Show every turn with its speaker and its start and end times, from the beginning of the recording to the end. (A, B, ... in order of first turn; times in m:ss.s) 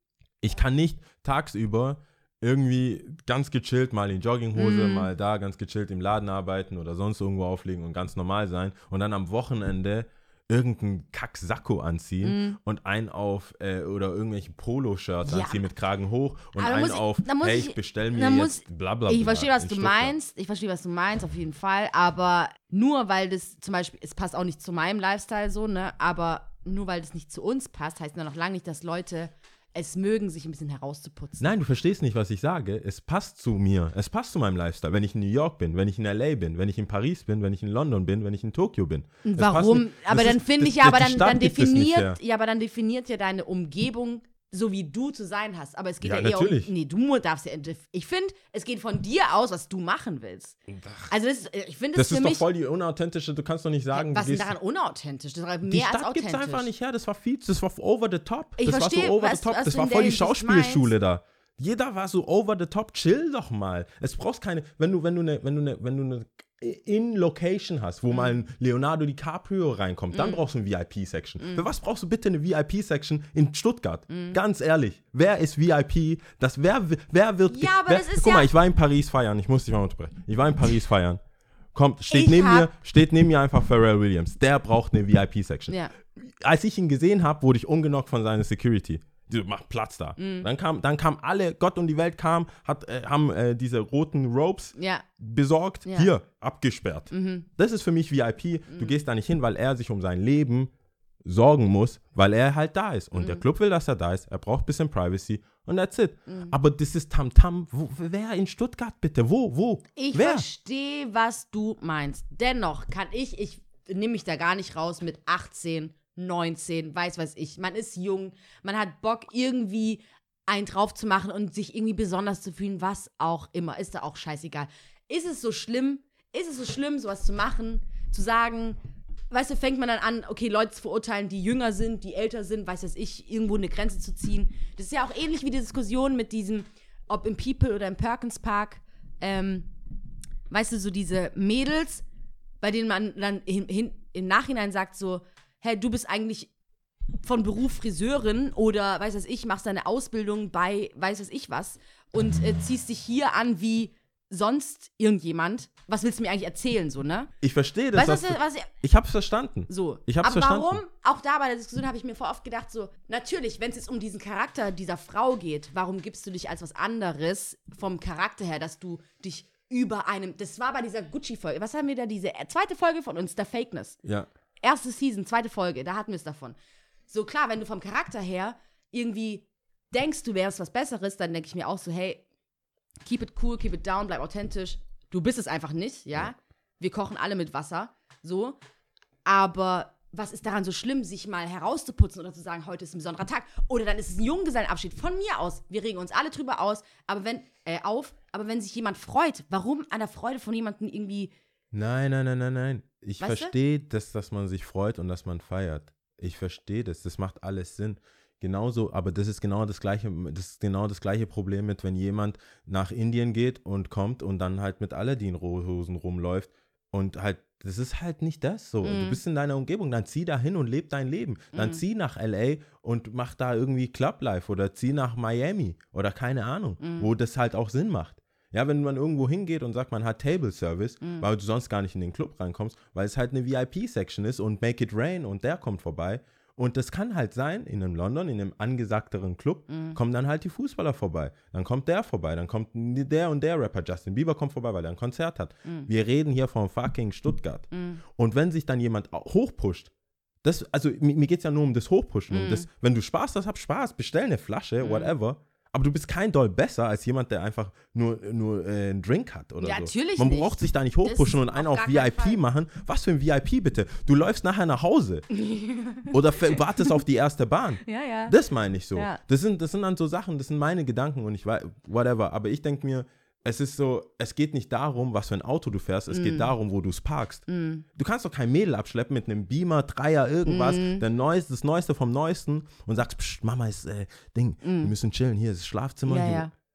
0:00.4-0:20.2 A
0:04.6-0:05.1 B
0:12.2-0:12.6 B
0:15.3-0:15.7 B
0:16.6-0:31.5 B
0:31.4-0:42.2 A
0:39.2-0:50.6 B
0:46.0-0:46.7 A
0:50.7-0:51.1 A
0:51.1-0:52.4 B
0:52.0-0:54.6 A
0:53.9-0:56.7 B
0:55.7-1:21.2 A
0:58.6-1:00.9 B
1:08.1-1:08.4 B
1:10.1-1:10.4 B
1:11.4-1:11.6 B
1:14.1-1:14.4 B
1:17.5-1:18.5 B
1:21.7-1:40.7 A
1:22.1-1:22.7 B
1:25.7-1:25.9 B
1:30.2-1:30.5 B
1:34.8-1:35.1 B
1:35.9-1:36.1 B
1:37.1-1:37.5 B
1:38.7-1:39.0 B
1:41.2-1:50.5 A
1:43.2-1:43.4 B
1:46.3-1:46.5 B
1:50.0-2:08.8 B
2:09.3-2:19.7 B
2:20.5-2:22.0 B
2:22.6-2:26.5 B
2:27.2-2:37.3 B
2:37.4-2:40.8 A
2:37.9-2:38.7 B
2:39.7-2:54.0 B
2:54.6-2:56.6 B
2:57.1-3:02.2 B
3:03.0-3:08.6 B
3:09.3-3:21.3 B
3:21.7-4:09.9 A
3:23.2-3:23.5 B
3:38.8-3:39.2 B
3:41.5-3:41.8 B
3:46.8-3:47.1 B
3:51.0-3:51.3 B
3:59.7-4:00.0 B
4:07.7-4:08.0 B
4:10.4-4:25.3 A
4:12.3-4:12.7 B
4:14.8-4:15.1 B
4:19.6-4:22.4 B
4:25.3-4:27.0 B
4:26.1-4:46.5 A
4:27.8-4:28.4 B
4:29.0-4:29.2 B
4:36.1-4:36.5 B
4:37.5-4:37.8 B
4:40.5-4:41.0 B
4:44.6-4:44.9 B
4:46.1-4:46.5 B